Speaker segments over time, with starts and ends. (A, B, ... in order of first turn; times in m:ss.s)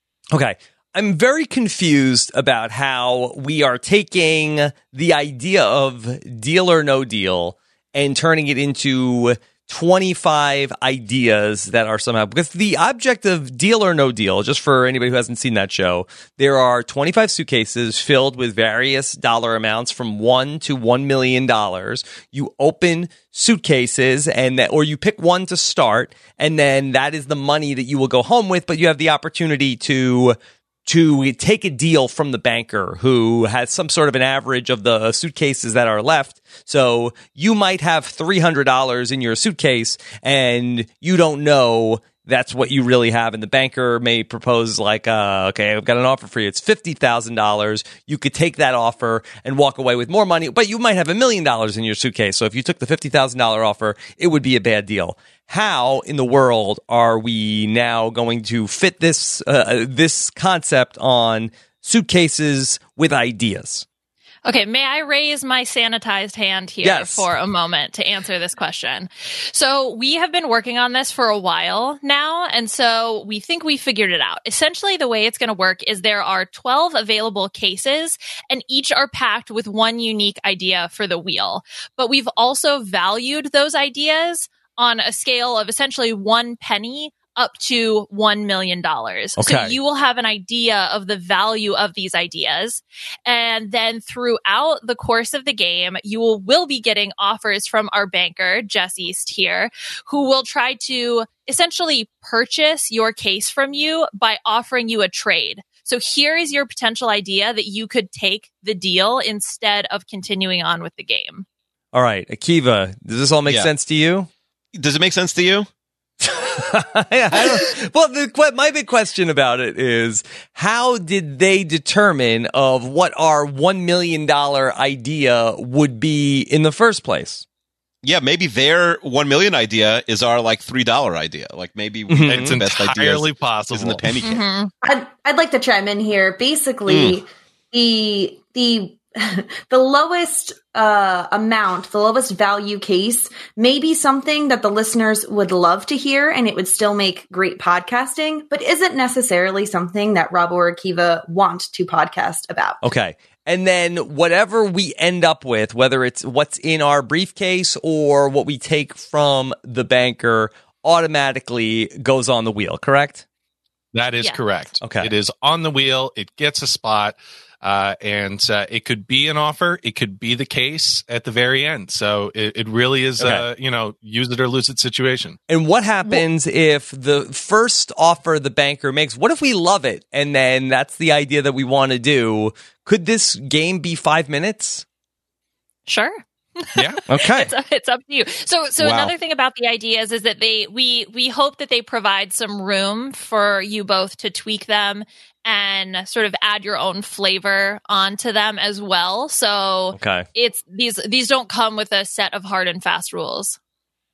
0:00.3-1:03.8 A
1:04.4-1:51.4 B
1:06.8-1:07.3 A
1:29.4-1:29.8 A
1:51.9-1:54.3 A
1:53.4-1:53.7 C
1:54.7-1:55.7 C
1:56.2-2:07.4 A
1:57.3-1:57.7 C
2:08.0-2:14.4 C
2:12.1-2:12.6 A
2:12.2-2:14.0 D
2:14.2-2:14.7 B
2:14.8-2:32.8 E
2:16.9-2:17.2 C
2:32.8-2:43.2 A
2:43.9-2:55.4 D
2:44.8-2:45.1 A
2:53.2-2:53.5 A
2:55.5-3:04.8 A
3:05.9-3:23.6 B
3:06.7-3:07.0 D
3:07.1-3:07.5 A
3:08.8-3:09.1 C
3:19.9-3:20.2 A